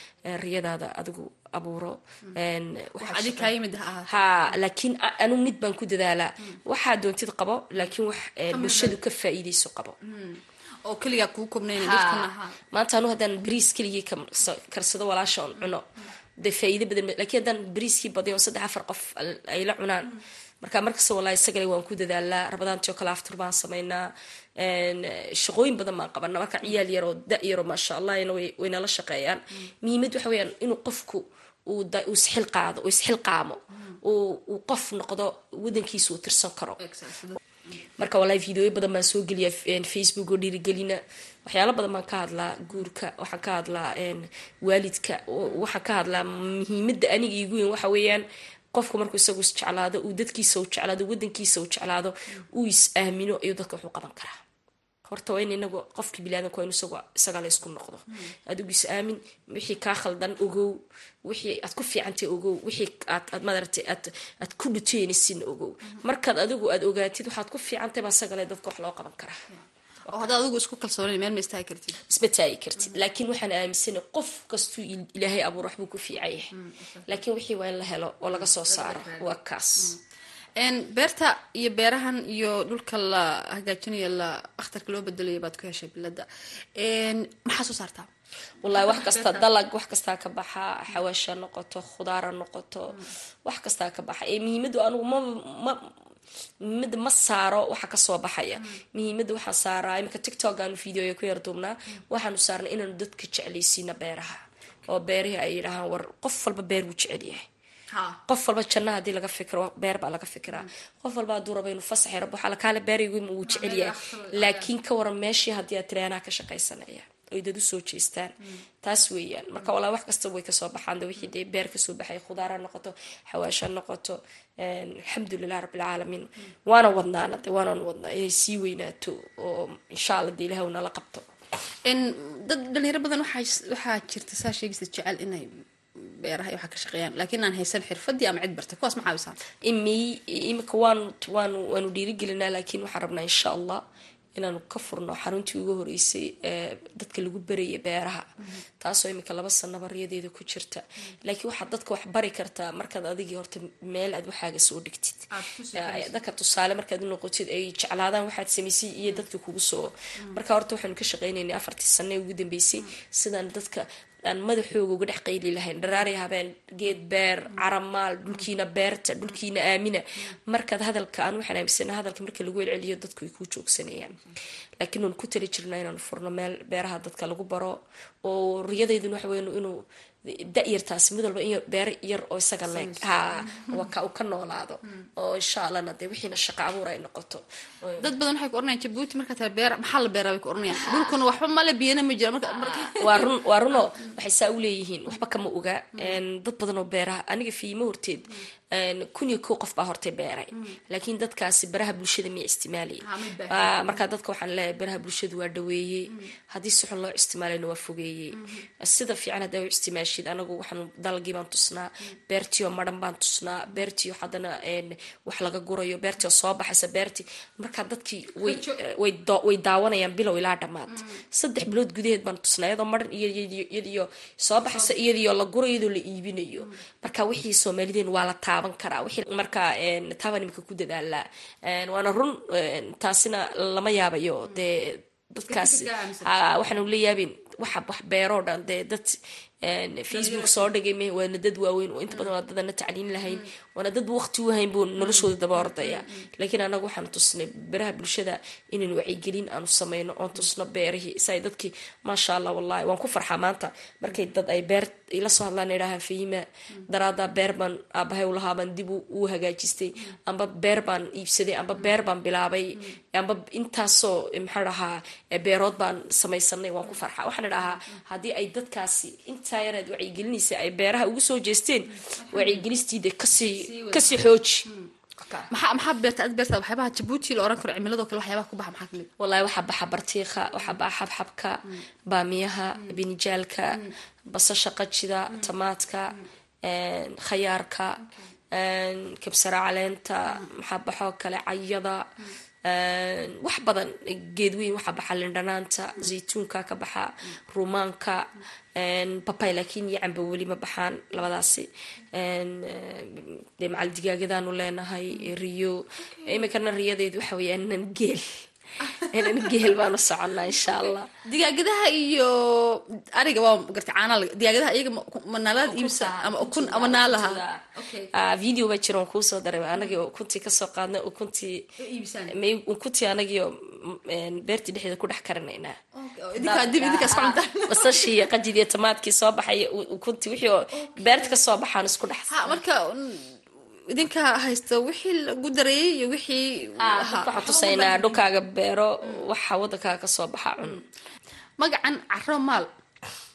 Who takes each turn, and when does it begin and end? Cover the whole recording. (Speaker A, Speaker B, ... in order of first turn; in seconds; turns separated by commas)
Speaker A: 0.3-3.5, Speaker B: 3.0-4.6, Speaker A: 4.1-10.0, Speaker B: 8.5-9.0, Speaker B: 10.0-12.6, Speaker A: 11.8-15.9, Speaker A: 16.4-36.8, Speaker B: 36.8-37.9, Speaker A: 38.0-54.4, Speaker A: 55.1-69.4, Speaker B: 69.5-72.0, Speaker A: 72.1-76.5, Speaker B: 76.6-77.1, Speaker A: 77.1-80.0, Speaker B: 78.3-80.0, Speaker B: 80.6-86.2, Speaker B: 86.8-88.1, Speaker A: 88.6-95.9, Speaker B: 88.6-89.5, Speaker A: 96.6-107.5, Speaker B: 107.9-108.2, Speaker A: 108.3-131.2, Speaker B: 113.5-114.7, Speaker B: 131.8-139.4, Speaker A: 139.6-143.8, Speaker A: 144.4-148.3, Speaker A: 148.8-174.2, Speaker B: 155.3-156.2, Speaker A: 174.8-188.0, Speaker B: 182.7-183.8, Speaker B: 188.0-193.3, Speaker A: 190.9-191.1, Speaker A: 192.6-274.7, Speaker B: 203.0-204.0, Speaker B: 208.3-208.6, Speaker B: 218.4-218.8, Speaker B: 220.9-221.2, Speaker B: 235.5-236.3, Speaker B: 240.1-240.7, Speaker B: 245.0-246.2, Speaker B: 272.2-272.7, Speaker B: 273.4-274.9, Speaker A: 275.2-275.5, Speaker B: 275.5-279.1, Speaker A: 279.2-288.0, Speaker A: 288.5-292.1, Speaker A: 292.7-308.4, Speaker B: 308.8-309.7, Speaker A: 309.0-311.1, Speaker B: 310.5-318.1, Speaker A: 315.5-317.6, Speaker A: 318.1-321.6, Speaker B: 321.8-322.3, Speaker A: 322.3-325.8, Speaker B: 326.0-328.2, Speaker A: 326.4-332.6, Speaker B: 330.8-331.4, Speaker B: 332.3-333.3, Speaker B: 333.9-338.2, Speaker A: 336.8-340.8, Speaker B: 341.6-342.7